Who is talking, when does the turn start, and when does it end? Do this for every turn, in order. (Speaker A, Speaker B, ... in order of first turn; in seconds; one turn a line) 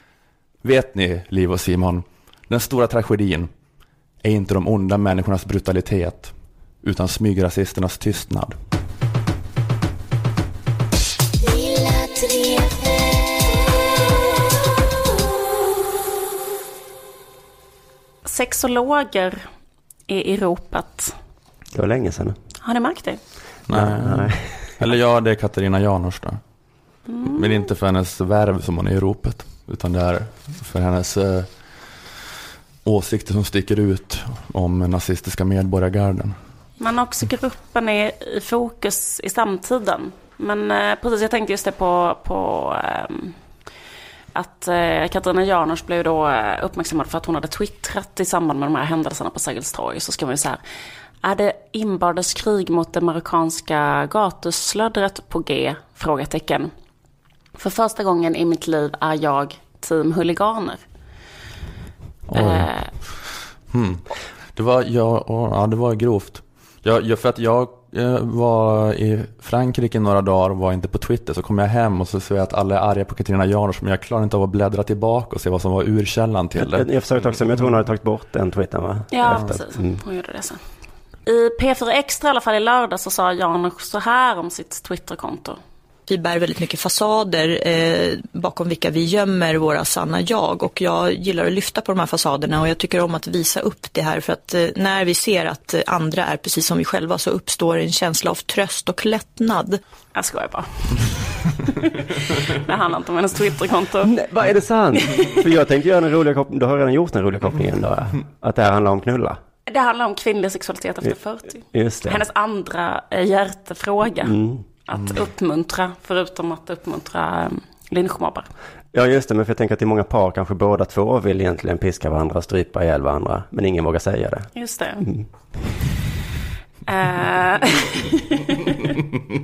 Speaker A: 0.6-3.5
Speaker A: 4.2-8.5
Speaker B: 11.9-12.5
Speaker B: 18.2-19.4
Speaker B: 20.1-21.1
Speaker C: 21.7-22.4
Speaker B: 22.6-23.2
Speaker A: 23.7-26.4
Speaker C: 23.7-24.5
Speaker B: 27.1-27.6
Speaker A: 27.2-31.5
Speaker A: 32.8-36.4
Speaker B: 36.8-43.4
Speaker B: 44.3-50.6
Speaker B: 51.2-56.7
Speaker B: 57.6-60.8
Speaker A: 62.3-76.9
Speaker B: 62.3-62.9
Speaker C: 76.6-80.0
Speaker B: 79.1-80.6
Speaker B: 81.2-85.6
Speaker D: 86.1-99.8
Speaker B: 100.1-104.1
Speaker C: 104.0-109.4
Speaker B: 105.1-105.4
Speaker B: 109.7-114.3
Speaker C: 111.7-112.2
Speaker C: 114.2-114.6
Speaker B: 114.9-118.5
Speaker C: 118.9-124.5
Speaker B: 124.5-125.1
Speaker C: 125.0-125.3
Speaker B: 126.9-128.8